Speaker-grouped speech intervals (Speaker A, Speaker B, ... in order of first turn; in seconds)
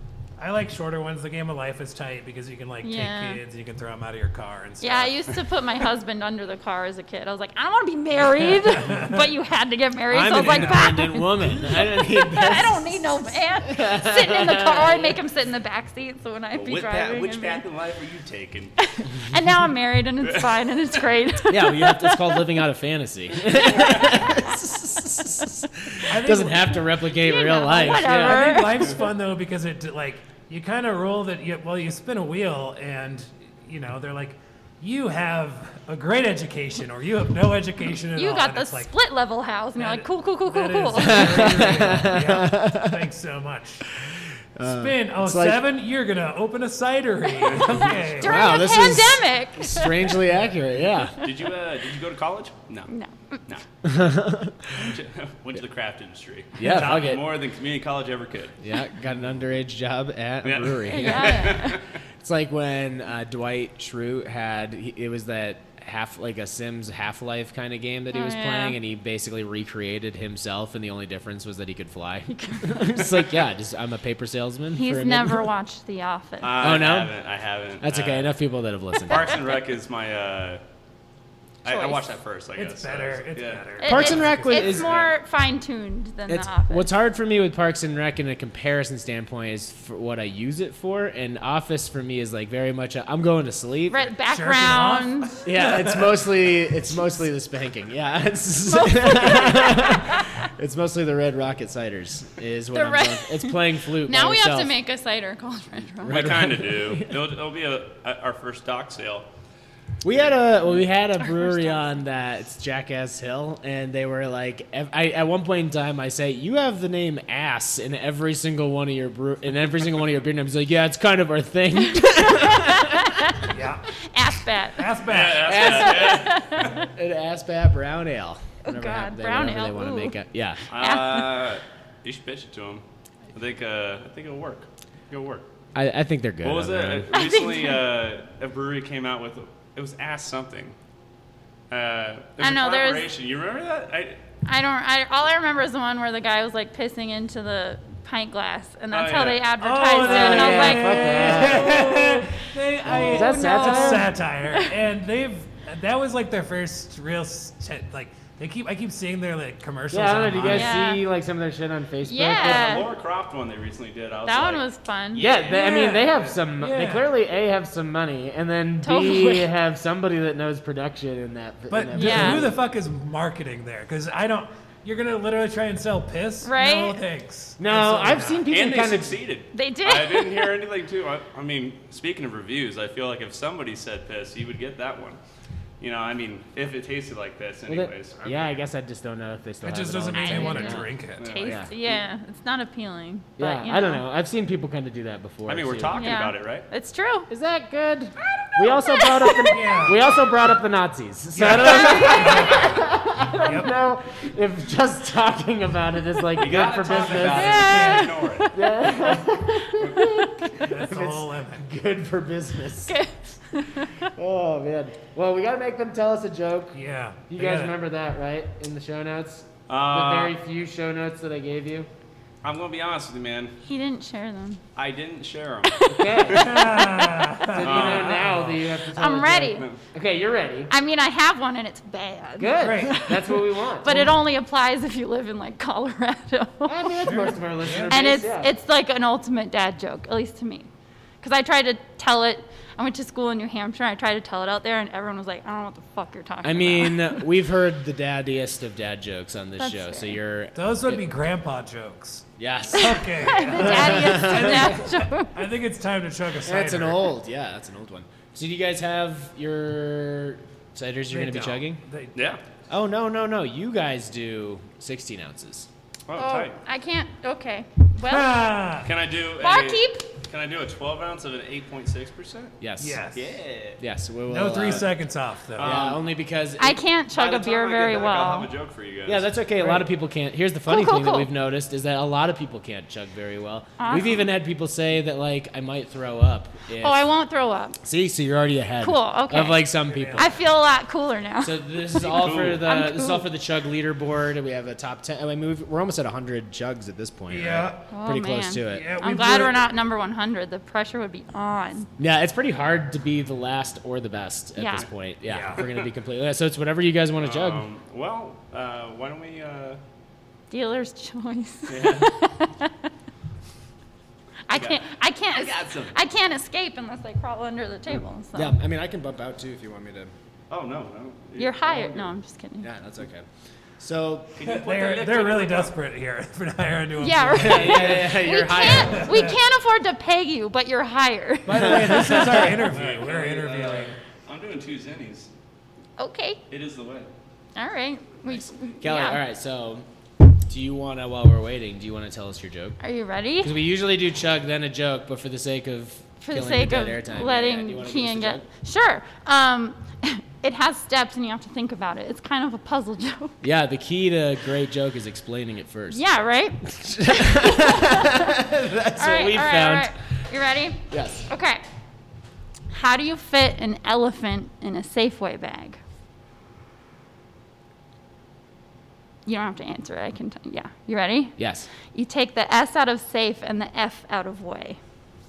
Speaker A: 0.4-5.1, 8.7-9.2, 26.1-26.8, 27.8-38.9, 39.8-43.9, 44.6-48.4, 82.5-84.8, 94.2-96.7, 123.5-123.9, 124.8-125.6, 149.6-160.8, 165.4-167.1, 171.7-178.5, 189.6-191.3, 199.5-200.0, 201.3-202.8, 203.4-203.7, 207.1-208.1, 210.6-211.6, 216.7-217.7, 226.3-228.5, 232.6-233.1, 237.0-238.0, 250.5-257.1, 261.1-262.4, 268.0-268.9, 272.8-273.4, 274.3-275.9, 279.6-279.9, 289.8-290.3, 297.3-297.9, 298.6-299.6, 305.3-305.6, 324.4-328.1, 328.7-329.4, 331.4-333.9
Speaker B: 2.8-3.4, 4.8-17.6, 18.8-22.4, 27.1-29.0, 38.1-41.9, 47.5-50.2, 52.9-53.4, 60.9-61.8, 68.1-68.8, 72.3-72.9, 74.7-76.8, 81.7-82.0, 83.8-86.9, 93.9-95.4, 98.6-100.3, 102.7-106.5, 111.4-111.7, 121.9-123.4, 124.0-124.9, 125.9-126.8, 128.6-131.3, 137.1-137.8, 142.4-143.1, 144.4-154.7, 160.5-161.0, 162.0-162.9, 164.2-165.4, 168.8-169.5, 171.9-172.5, 176.4-177.0, 179.5-180.6, 190.1-194.0, 195.9-197.3, 198.6-200.1, 201.7-202.4, 207.2-210.3, 212.8-214.0, 223.6-224.6, 225.7-227.0, 228.9-229.6, 230.7-236.9, 237.9-240.7, 241.2-247.3, 249.6-250.2, 252.7-255.3, 266.1-268.4, 269.4-270.1, 276.6-278.5, 280.6-281.3, 283.8-284.3, 286.8-287.8, 288.8-293.3, 297.9-301.9, 304.6-304.9, 310.5-312.9, 314.5-318.6, 321.4-322.7, 327.0-332.2, 336.0-336.4, 337.6-339.2, 342.8-343.5, 346.2-353.4, 355.9-358.3, 359.0-361.6, 362.7-365.8, 369.2-374.8
Speaker C: 10.1-15.2, 21.5-28.6, 41.0-43.0, 44.0-45.6, 48.2-51.2, 53.8-54.9, 56.6-57.3, 58.6-75.5, 76.6-77.2, 77.8-79.4, 83.8-85.0, 86.3-94.1, 95.4-104.7, 106.0-107.2, 110.0-123.3, 125.4-130.6, 135.7-137.1, 150.0-151.9, 152.9-154.1, 159.9-162.8, 165.1-172.6, 177.6-179.2, 187.7-190.9, 193.4-196.0, 197.3-207.8, 208.5-212.9, 214.2-221.9, 225.9-226.5, 227.5-230.7, 232.4-234.1, 236.7-238.6, 246.4-251.0, 252.4-254.8, 256.4-261.8, 262.7-265.7, 272.6-273.1, 273.8-274.9, 275.6-276.8, 279.1-287.1, 287.8-290.3, 291.4-299.5, 302.0-307.6, 318.3-320.1, 322.6-323.3, 323.8-324.3, 327.3-329.1, 331.5-332.6, 338.8-339.9, 340.4-342.8, 343.4-348.4, 353.4-356.0, 356.6-359.9, 360.9-361.3, 371.4-371.7
Speaker D: 10.3-10.6, 16.5-18.8, 20.2-20.5, 51.2-52.9, 53.5-53.9, 54.7-58.6, 60.4-61.8, 76.4-78.3, 79.1-80.6, 81.6-83.7, 84.7-85.1, 106.0-109.3, 125.1-126.8, 130.7-135.4, 136.4-140.8, 141.7-144.2, 148.9-149.5, 162.3-164.6, 178.5-185.2, 185.8-188.2, 191.2-191.9, 195.4-196.7, 206.4-208.5, 219.7-220.3, 222.4-223.5, 224.7-226.8, 227.6-228.6, 262.1-262.4, 266.1-266.6, 268.8-272.6, 273.1-273.8, 274.6-274.9, 275.5-276.0, 277.1-279.3, 292.1-292.6, 305.5-305.9, 307.2-309.8, 311.7-312.1, 314.5-315.9, 320.5-322.1, 324.4-325.7, 332.5-335.3, 336.5-337.1